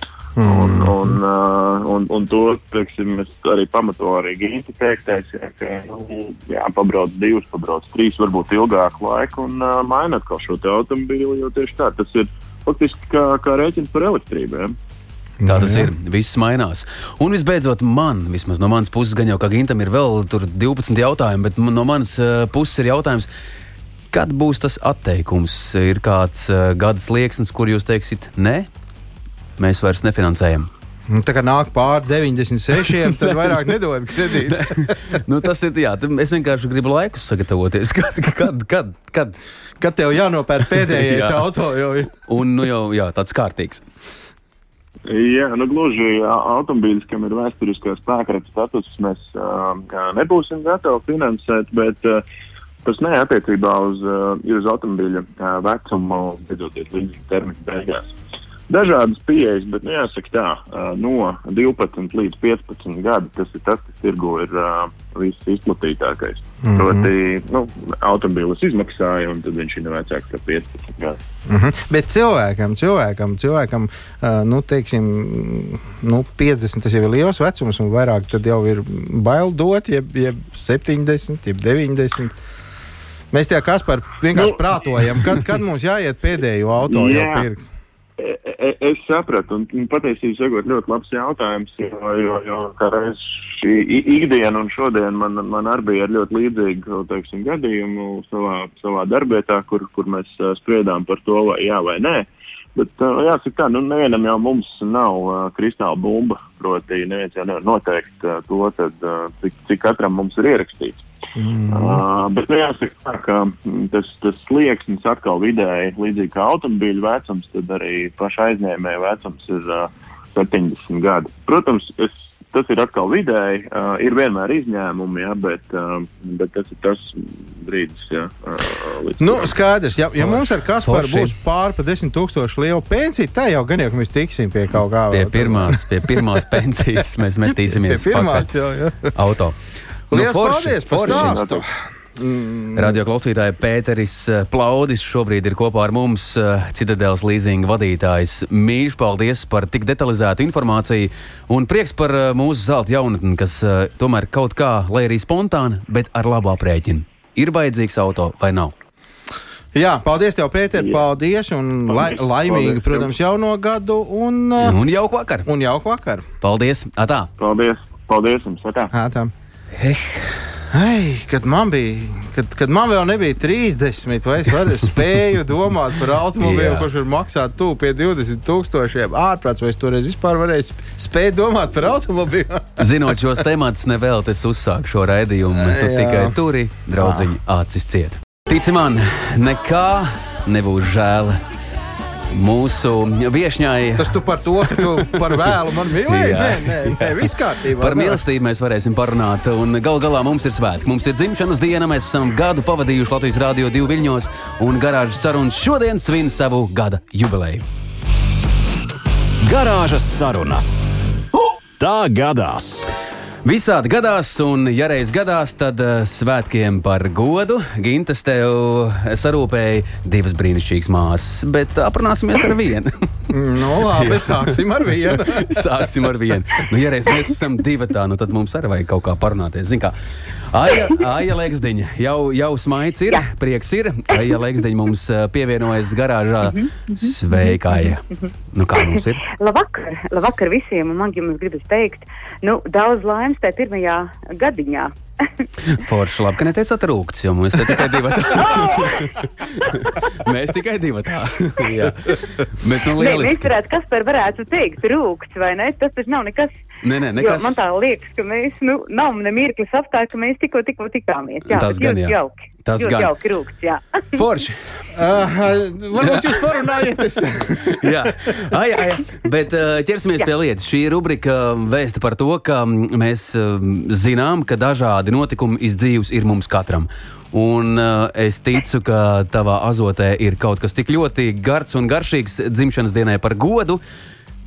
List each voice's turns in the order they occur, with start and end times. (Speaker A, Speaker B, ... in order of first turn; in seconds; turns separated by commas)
Speaker A: 0.4-1.2, Speaker B: 0.4-14.7, Speaker A: 15.4-15.9, Speaker C: 15.5-23.3, Speaker C: 24.1-28.7, Speaker C: 29.6-30.7, Speaker A: 31.1-35.2, Speaker C: 34.4-39.4, Speaker A: 39.8-42.1, Speaker C: 40.8-41.4, Speaker C: 42.2-43.8, Speaker B: 45.1-52.2, Speaker B: 52.8-58.1, Speaker B: 58.7-71.2, Speaker A: 66.6-67.1, Speaker A: 71.5-82.4, Speaker A: 83.3-87.6, Speaker B: 84.3-85.5, Speaker B: 86.8-87.5, Speaker B: 88.2-111.0, Speaker A: 111.3-112.0, Speaker B: 111.7-129.5, Speaker A: 129.2-136.6, Speaker C: 130.8-131.3, Speaker C: 135.1-138.5, Speaker A: 137.5-139.1, Speaker C: 139.1-139.6, Speaker C: 140.1-141.4, Speaker A: 140.1-143.0, Speaker B: 141.0-141.6, Speaker C: 142.7-158.7, Speaker A: 159.7-164.8, Speaker B: 160.8-161.0, Speaker B: 161.9-163.1, Speaker C: 164.6-165.5, Speaker A: 165.4-166.2, Speaker C: 166.4-167.3, Speaker B: 167.4-168.9, Speaker A: 168.9-169.3, Speaker C: 169.8-170.5, Speaker A: 170.7-182.9, Speaker C: 176.4-176.9, Speaker C: 182.8-191.4, Speaker A: 185.5-186.3, Speaker A: 187.0-187.3, Speaker C: 192.3-194.1, Speaker A: 194.0-198.2, Speaker C: 194.7-195.4, Speaker C: 196.1-197.2, Speaker C: 197.8-207.6, Speaker D: 209.4-210.9, Speaker D: 211.8-212.9, Speaker C: 213.4-223.3, Speaker A: 223.3-226.0, Speaker C: 223.8-229.9, Speaker C: 230.5-239.2, Speaker E: 236.4-237.1, Speaker E: 238.9-244.9, Speaker C: 245.7-253.5, Speaker E: 248.2-250.1, Speaker E: 252.9-256.5, Speaker C: 256.8-257.6, Speaker E: 257.1-264.2, Speaker C: 261.5-263.1, Speaker C: 264.1-264.9, Speaker A: 264.9-267.9, Speaker C: 266.0-266.4, Speaker C: 267.6-283.8